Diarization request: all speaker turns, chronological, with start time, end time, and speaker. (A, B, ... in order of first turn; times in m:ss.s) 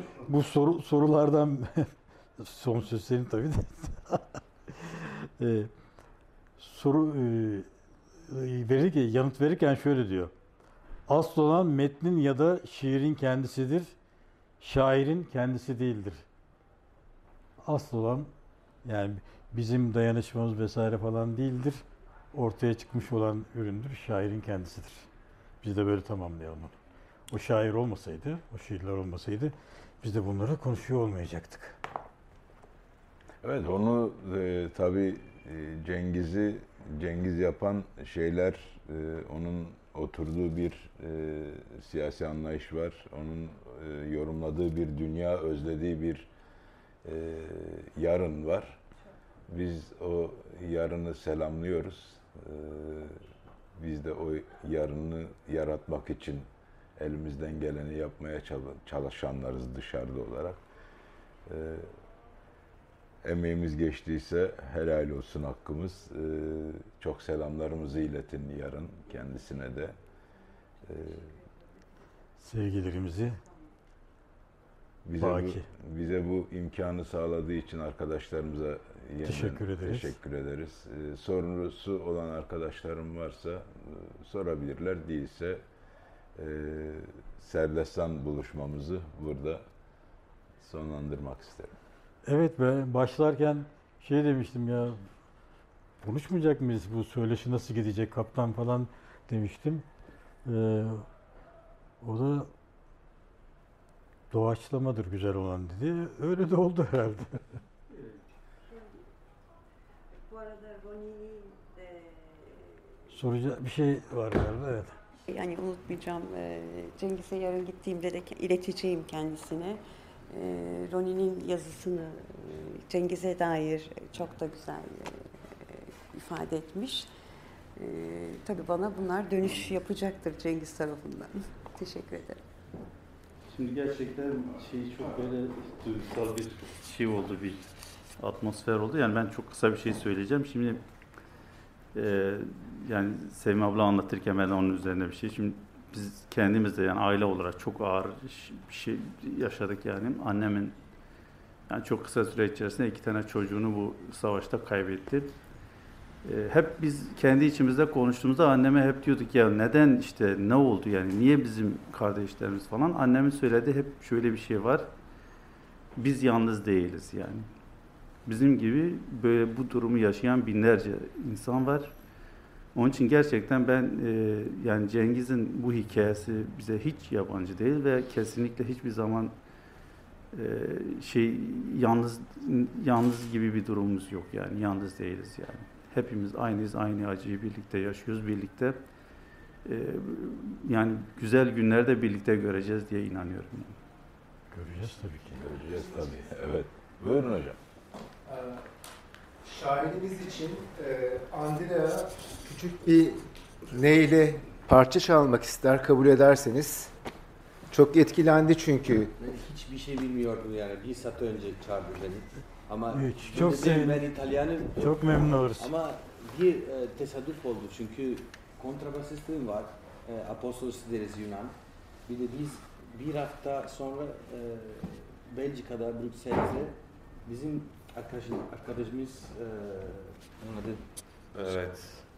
0:00.3-0:05.7 A
0:06.6-0:07.7 A
0:08.3-0:10.3 A
0:11.1-0:14.0 A
0:14.6-0:16.2 A
0:17.6-0:18.3 A
0:18.8-0:25.1 A
0:25.6-0:26.8 A
0:27.3-0:31.8 A
0:33.4-0:46.3 B
0:47.0-0:48.8 B
0:49.5-0:53.2 B
0:53.8-1:00.6 B
1:01.5-1:02.0 B
1:03.2-1:10.0 B
1:10.8-1:11.4 B
1:12.4-1:13.4 A
1:15.0-1:25.6 B
1:15.2-1:15.7 A
1:19.2-1:20.2 A
1:26.4-1:29.6 B
1:30.6-1:31.8 B
1:32.3-1:35.0 A
1:36.0-1:39.9 A
1:40.4-1:41.1 A
1:42.0-1:42.5 A
1:44.3-1:47.4 A
1:50.3-1:52.7 C
1:53.1-1:55.0 A
1:55.3-2:07.1 C
2:07.8-2:12.4 C
2:13.5-2:20.8 D
2:21.9-2:30.8 D
2:31.7-2:35.4 D
2:36.2-2:44.9 D
2:46.0-2:47.5 D
2:48.2-2:52.0 D
2:52.7-2:59.4 D
3:00.3-3:08.9 D
3:09.6-3:13.8 D
3:14.5-3:15.4 A
3:15.3-3:17.6 B
3:18.3-3:18.6 E
3:19.4-3:26.9 E
3:27.7-3:29.1 E
3:29.2-3:52.0 F
3:32.9-3:34.1 A
3:34.8-3:35.7 A